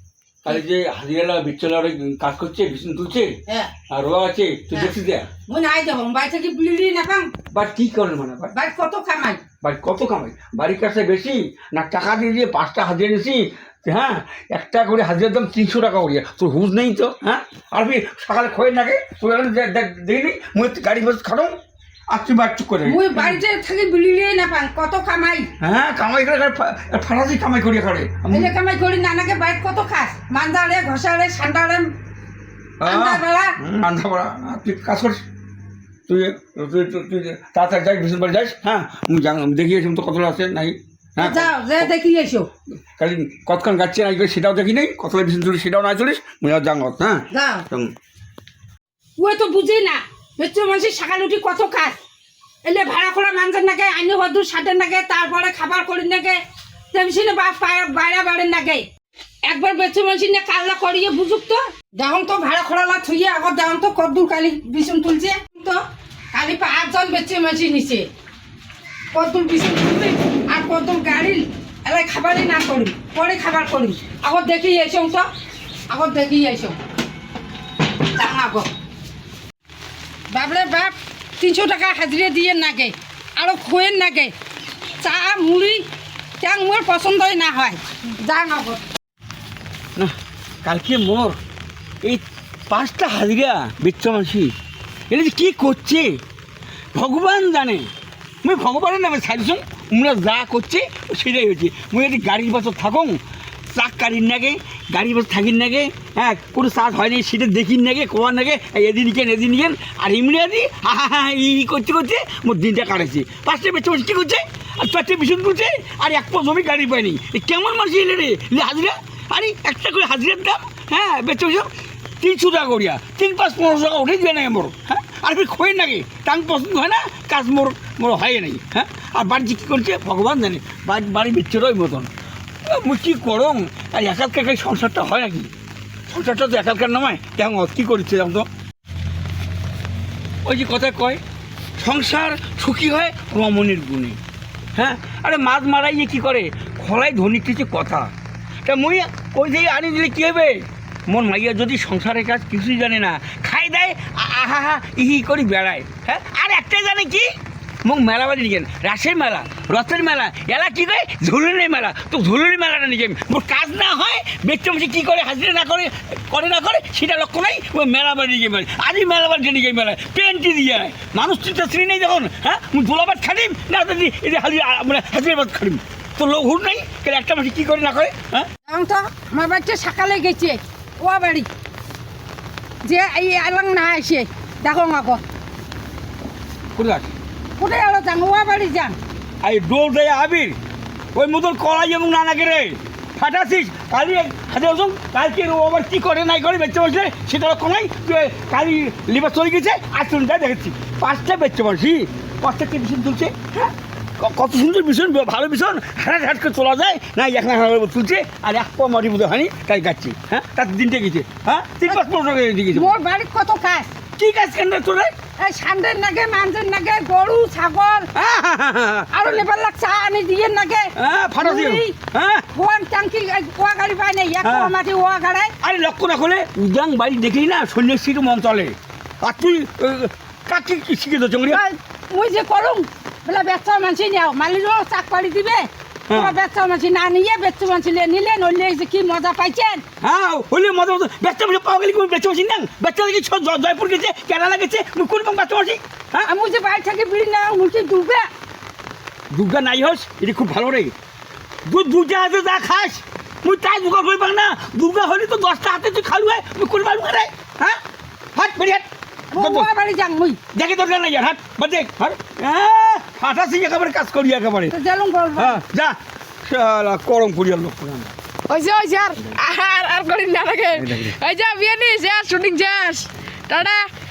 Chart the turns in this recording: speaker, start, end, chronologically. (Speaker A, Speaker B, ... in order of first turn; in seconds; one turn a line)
Speaker A: 0.4-3.4
Speaker B: 3.5-3.7
Speaker A: 3.9-5.3
Speaker B: 5.5-7.3
Speaker A: 7.5-8.5
Speaker B: 8.5-9.4
Speaker A: 9.6-21.5
Speaker A: 22.1-23.4
Speaker B: 22.9-25.5
Speaker A: 25.6-28.5
Speaker B: 28.3-31.9
Speaker A: 32.8-35.2
Speaker B: 32.9-33.6
Speaker A: 36.1-41.9
Speaker B: 41.2-42.5
Speaker A: 43.0-47.9
Speaker B: 47.3-47.7
Speaker B: 49.2-52.0
Speaker B: 52.6-56.4
Speaker B: 56.9-58.9
Speaker B: 59.5-65.8
Speaker B: 66.3-68.1
Speaker B: 69.1-75.3
Speaker B: 75.9-76.8
Speaker B: 78.1-78.7
Speaker B: 80.3-84.3
Speaker B: 85.0-85.8
Speaker B: 86.4-88.8
Speaker A: 90.0-91.4
Speaker A: 92.0-94.5
Speaker A: 95.1-96.2
Speaker A: 97.0-97.9
Speaker A: 98.4-103.2
Speaker A: 103.7-132.1
Speaker A: 132.7-135.5
Speaker A: 136.1-138.5
Speaker A: 140.4-141.2
Speaker A: 141.8-144.2
Speaker A: 144.8-148.1
Speaker A: 148.7-157.3
Speaker A: 157.8-178.5
Speaker B: 178.7-181.5
Speaker B: 182.8-185.2
Speaker A: 186.8-187.1
Speaker B: 187.6-189.0
Speaker A: 189.4-190.6
Speaker A: 191.2-212.9
Speaker B: 212.7-213.9
Speaker A: 214.2-215.1
Speaker B: 215.4-218.1
Speaker A: 218.1-219.4
Speaker B: 219.1-222.0
Speaker A: 221.0-222.4
Speaker B: 222.5-225.5
Speaker A: 224.4-224.8
Speaker A: 225.6-231.6
Speaker B: 231.5-239.8
Speaker A: 236.1-236.4
Speaker A: 240.0-246.3
Speaker B: 246.2-248.3
Speaker A: 249.3-250.9
Speaker A: 251.7-257.8
Speaker A: 258.4-259.7
Speaker B: 259.3-260.4
Speaker A: 260.5-264.8
Speaker B: 264.7-265.6
Speaker A: 265.4-268.1
Speaker C: 268.5-273.9
Speaker A: 270.8-271.1